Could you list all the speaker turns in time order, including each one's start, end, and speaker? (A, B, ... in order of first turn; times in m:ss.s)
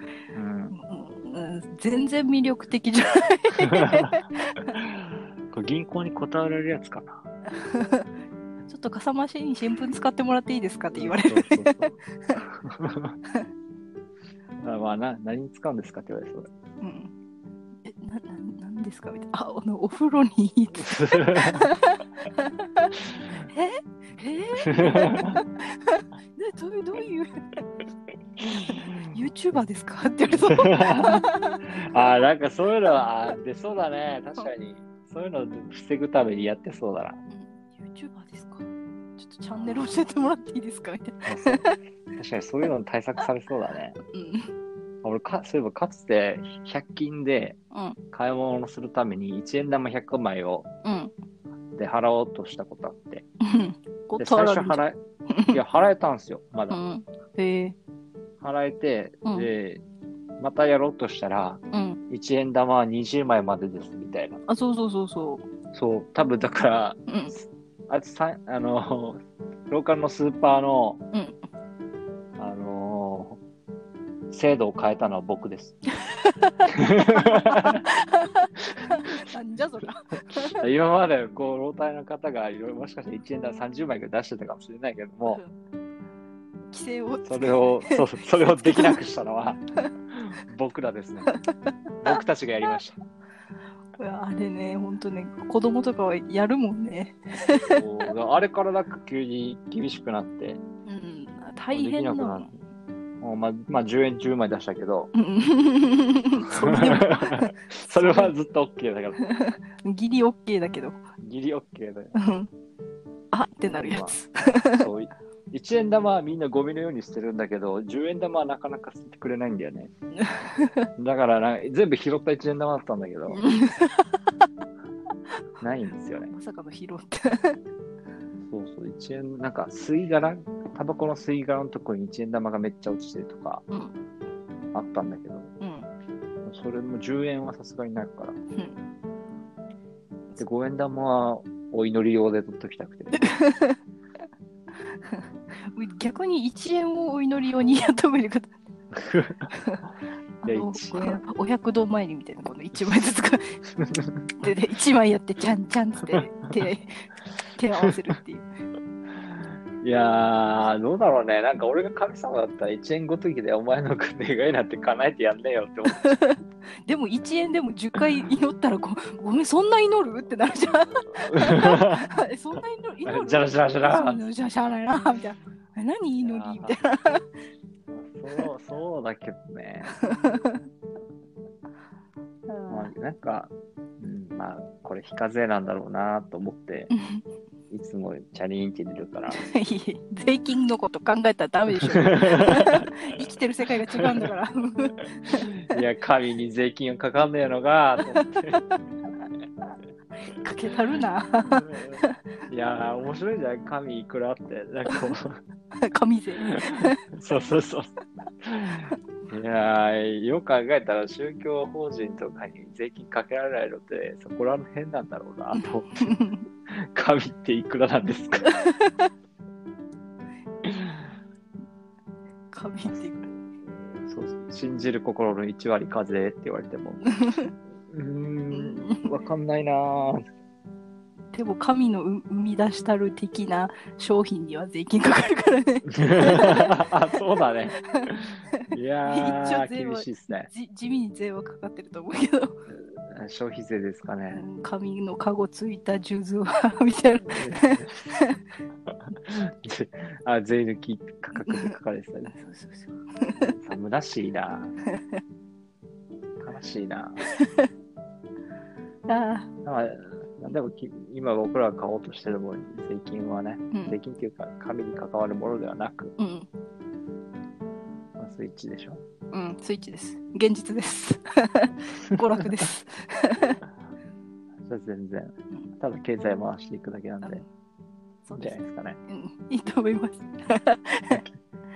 0:00.3-0:00.8 A
0:00.7-0:04.7 B
0:03.7-0:04.0 A
0:04.8-0:07.2 A
0:07.5-0:08.1 B
0:08.7-0:12.4 B
0:10.9-0:13.1 A
0:14.6-0:16.5 A
0:16.8-0:17.1 B
0:17.8-0:27.3 B
0:20.7-0:21.6 A
0:24.6-0:25.4 A
0:28.4-0:29.1 A
0:28.5-0:32.1 B
0:30.5-0:37.2 A
0:37.3-0:38.6 B
0:39.2-0:41.8 B
0:39.6-0:39.8 A
0:41.2-0:41.6 A
0:42.2-0:44.0 A
0:44.1-0:44.5 B
0:45.0-0:47.6 A
0:47.7-0:48.0 B
0:48.1-0:50.7 A
0:50.8-0:51.1 B
0:51.8-0:53.2 A
0:53.4-0:55.6 B
0:54.2-0:56.8 A
0:56.7-0:57.7 B
0:58.4-0:59.8 A
1:00.4-1:04.4 A
1:01.7-1:02.0 B
1:04.5-1:05.4 B
1:05.7-1:11.0 A
1:07.1-1:07.3 B
1:12.4-1:13.4 A
1:14.3-1:15.8 A
1:16.1-1:20.6 B
1:16.9-1:17.8 A
1:20.5-1:25.4 A
1:26.7-1:29.0 B
1:27.2-1:31.3 A
1:32.0-1:33.0 A
1:34.0-1:37.8 B
1:37.7-1:40.6 A
1:40.8-1:42.5 B
1:41.7-1:42.6 A
1:43.2-1:45.1 A
1:45.1-1:48.3 B
1:46.4-1:49.2 A
1:49.2-1:51.0 B
1:51.2-1:52.1 A
1:52.2-1:52.5 B
1:53.3-1:54.9 B
1:53.7-1:59.9 A
2:00.2-2:00.7 B
2:01.0-2:03.4 A
2:03.3-2:04.1 B
2:05.6-2:06.3 A
2:06.2-2:07.6 B
2:08.4-2:13.6 A
2:14.7-2:15.5 A
2:15.6-2:15.9 B
2:16.4-2:18.4 A
2:20.3-2:23.3 A
2:23.2-2:23.8 B
2:25.0-2:28.5 B
2:28.9-2:29.4 A
2:29.5-2:29.8 B
2:30.4-2:33.6 B
2:30.4-2:31.2 A
2:34.4-2:37.0 B
2:37.5-2:38.4 B
2:39.8-2:46.2 A
2:45.9-2:57.2 B
2:51.1-2:52.1 A
2:53.0-2:54.2 A
2:56.2-2:56.8 A
2:57.9-3:00.4 A
3:00.0-3:00.6 B
3:02.5-3:02.9 B
3:02.7-3:06.9 A
3:07.0-3:07.2 B
3:07.7-3:09.4 A
3:09.3-3:15.8 B
3:12.2-3:12.8 A
3:15.3-3:18.7 A
3:20.2-3:22.1 B
3:21.5-3:25.4 A
3:25.8-3:27.0 B
3:26.4-3:36.1 A
3:35.5-3:36.4 B
3:36.7-3:38.5 A
3:38.6-3:39.1 B
3:40.6-3:40.9 A
3:42.5-3:43.3 B
3:44.0-3:47.1 A
3:47.2-3:47.5 B
3:47.9-3:50.2 A
3:48.5-3:49.1 B
3:51.3-3:56.8 B
3:55.9-4:00.5 A
3:57.7-3:58.0 B
3:59.0-4:02.5 B
4:03.1-4:04.4 A
4:04.3-4:08.4 B
4:07.2-4:08.1 A
4:09.2-4:12.3 A
4:11.4-4:11.8 B
4:12.3-4:13.5 B
4:13.5-4:14.7 A
4:16.4-4:17.2 A
4:17.4-4:17.6 B
4:19.1-4:19.5 B
4:19.6-4:26.1 A
4:23.7-4:24.0 B
4:26.2-4:26.5 B
4:28.2-4:29.0 A
4:29.3-4:33.6 B
4:34.6-4:37.4 A
4:38.2-4:41.2 B
4:38.3-4:39.0 A